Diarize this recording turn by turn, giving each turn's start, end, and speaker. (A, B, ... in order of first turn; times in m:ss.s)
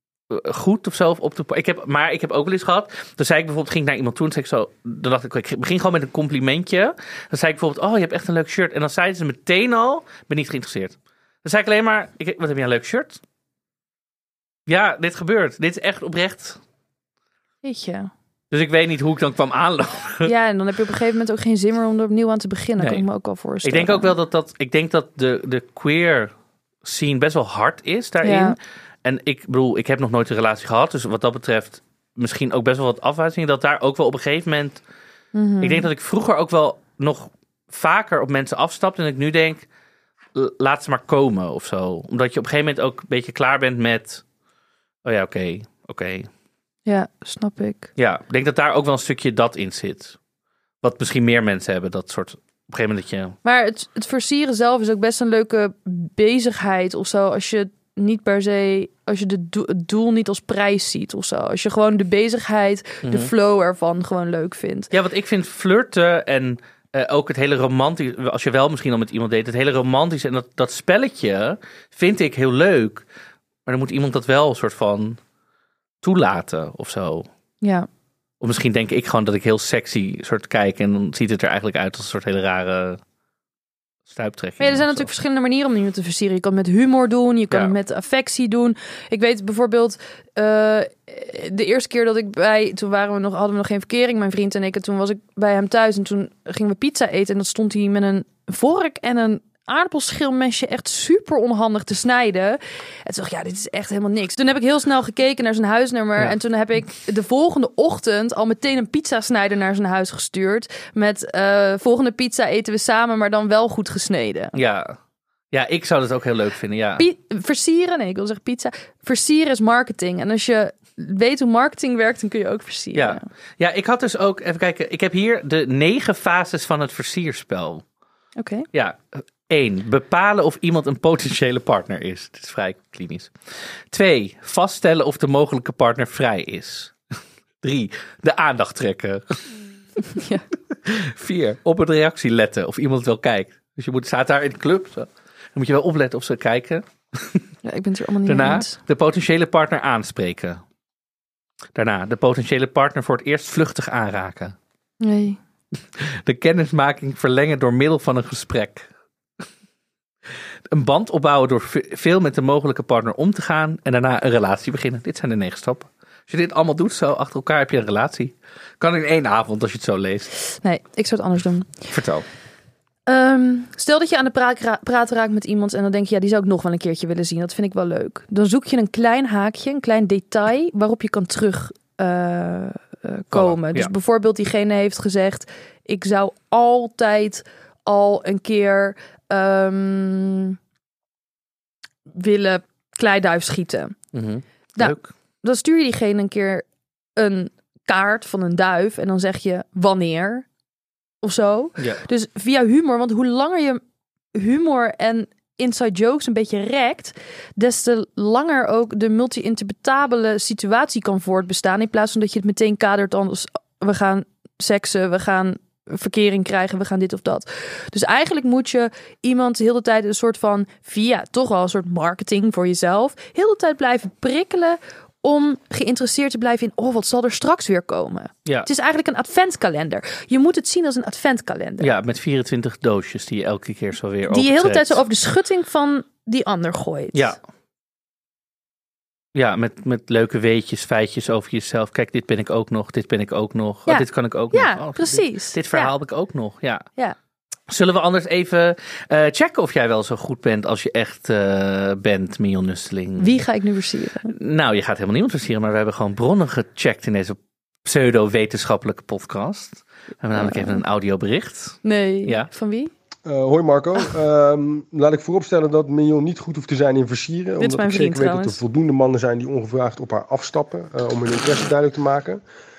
0:00.3-0:13.2 A
0:14.7-0:16.6 A
0:17.6-0:18.1 B
0:18.5-0:20.3 A
0:20.2-0:24.1 B
0:22.8-0:23.0 A
0:23.6-0:26.3 A
0:26.8-0:34.8 A
0:28.2-0:28.6 B
0:35.3-0:35.9 B
0:35.6-0:39.6 A
0:40.3-0:44.2 A
0:45.0-0:46.3 A
0:46.8-0:47.9 B
0:48.0-0:50.2 A
0:50.8-0:53.4 A
0:53.4-1:04.9 B
1:04.9-1:13.0 A
1:13.6-1:15.2 A
1:16.0-1:17.3 A
1:17.6-1:17.9 B
1:18.4-1:23.0 A
1:24.1-1:25.1 A
1:24.6-1:54.5 B
1:54.5-1:55.0 A
1:55.5-1:57.1 A
1:57.0-2:03.2 B
2:02.9-2:07.8 A
2:08.4-2:08.7 B
2:08.7-2:13.3 A
2:13.9-2:17.0 A
2:17.6-2:19.5 A
2:20.1-2:20.4 B
2:20.8-2:27.4 A
2:27.6-2:28.8 B
2:28.3-2:30.6 A
2:31.7-2:34.5 A
2:35.0-2:35.4 B
2:36.0-2:38.9 A
2:40.7-2:50.3 A
2:50.6-2:51.8 B
2:51.9-2:52.2 A
2:53.1-3:10.6 B
3:03.3-3:03.9 A
3:12.1-3:14.0 B
3:14.1-3:15.1 A
3:14.8-3:16.6 B
3:17.2-3:20.4 B
3:21.2-3:23.8 B
3:24.3-3:51.9 B
3:51.8-3:55.0 A
3:54.3-3:57.3 B
3:57.1-3:57.4 A
3:59.3-4:06.8 A
4:03.9-4:05.9 B
4:07.7-4:13.4 A
4:13.2-4:14.3 B
4:14.3-4:22.5 A
4:20.4-4:20.8 B
4:21.8-4:22.9 B
4:23.2-4:32.4 C
4:27.6-4:28.6 B